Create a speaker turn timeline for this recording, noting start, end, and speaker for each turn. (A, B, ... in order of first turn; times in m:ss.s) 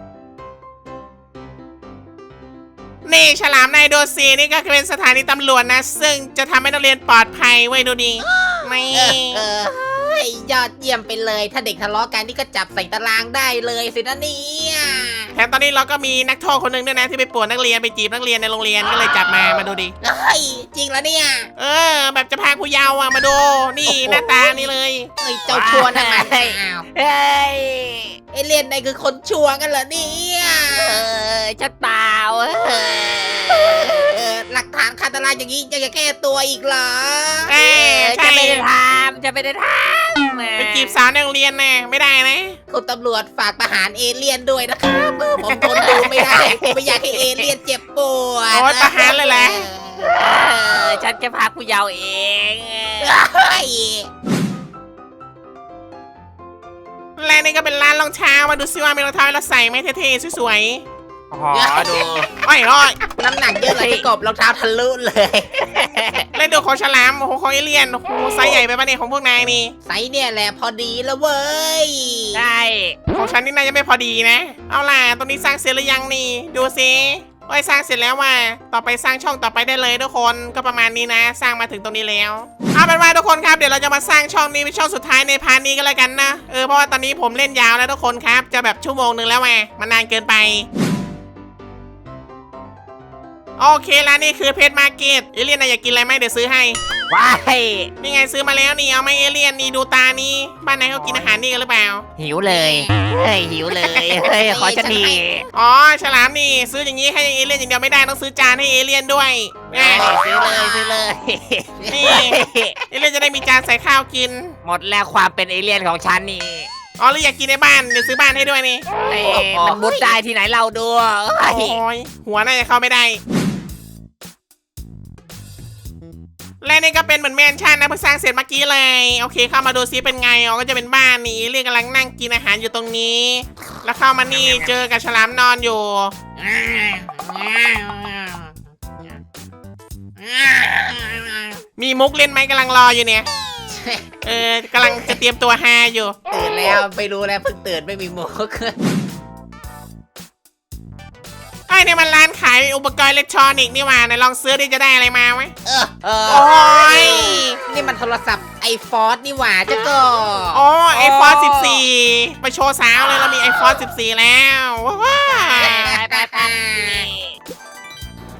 0:03.0-0:09.4 A
0:08.3-0:15.3 B
0:15.4-0:19.9 A
0:20.0-0:21.5 B
0:21.6-0:25.1 A
0:23.9-0:26.9 B
0:23.9-0:24.2 C
0:25.5-0:28.2 C
0:28.3-0:31.0 B
0:30.8-0:34.1 C
0:33.9-0:37.8 B
0:37.5-0:38.6 A
0:37.8-0:41.0 C
0:40.6-0:42.6 A
0:42.7-0:51.0 B
0:45.4-0:47.5 C
0:48.5-0:49.7 A
0:50.1-0:53.2 C
0:53.0-0:54.1 B
0:57.2-1:00.8 A
1:01.3-1:02.3 C
1:01.5-1:02.3 B
1:02.4-1:03.0 A
1:03.0-1:06.0 B
1:03.6-1:04.0 C
1:05.7-1:06.3 C
1:06.3-1:09.8 A
1:09.9-1:12.4 B
1:12.4-1:13.0 C
1:13.1-1:30.7 A
1:33.6-1:36.8 A
1:37.1-1:37.9 C
1:38.0-1:42.0 A
1:41.0-1:41.4 C
1:42.2-1:45.4 C
1:42.5-1:42.9 B
1:43.8-1:45.2 B
1:45.5-1:50.1 A
1:49.7-1:51.1 B
1:49.8-1:52.8 C
1:51.8-1:52.3 B
1:51.9-1:54.5 A
1:54.6-1:56.7 C
1:57.0-1:58.8 A
1:59.0-2:01.8 C
1:59.1-2:00.2 B
2:01.4-2:03.2 A
2:06.6-2:16.1 A
2:14.4-2:14.7 C
2:16.4-2:19.1 B
2:20.2-2:21.6 B
2:21.8-2:23.3 A
2:23.7-2:24.2 B
2:24.2-2:26.2 A
2:26.3-2:28.8 B
2:31.7-2:35.5 A
2:35.6-2:40.6 B
2:36.3-2:37.6 A
2:40.5-2:46.0 A
2:40.9-2:41.8 C
2:45.3-2:47.3 C
2:45.6-2:47.1 B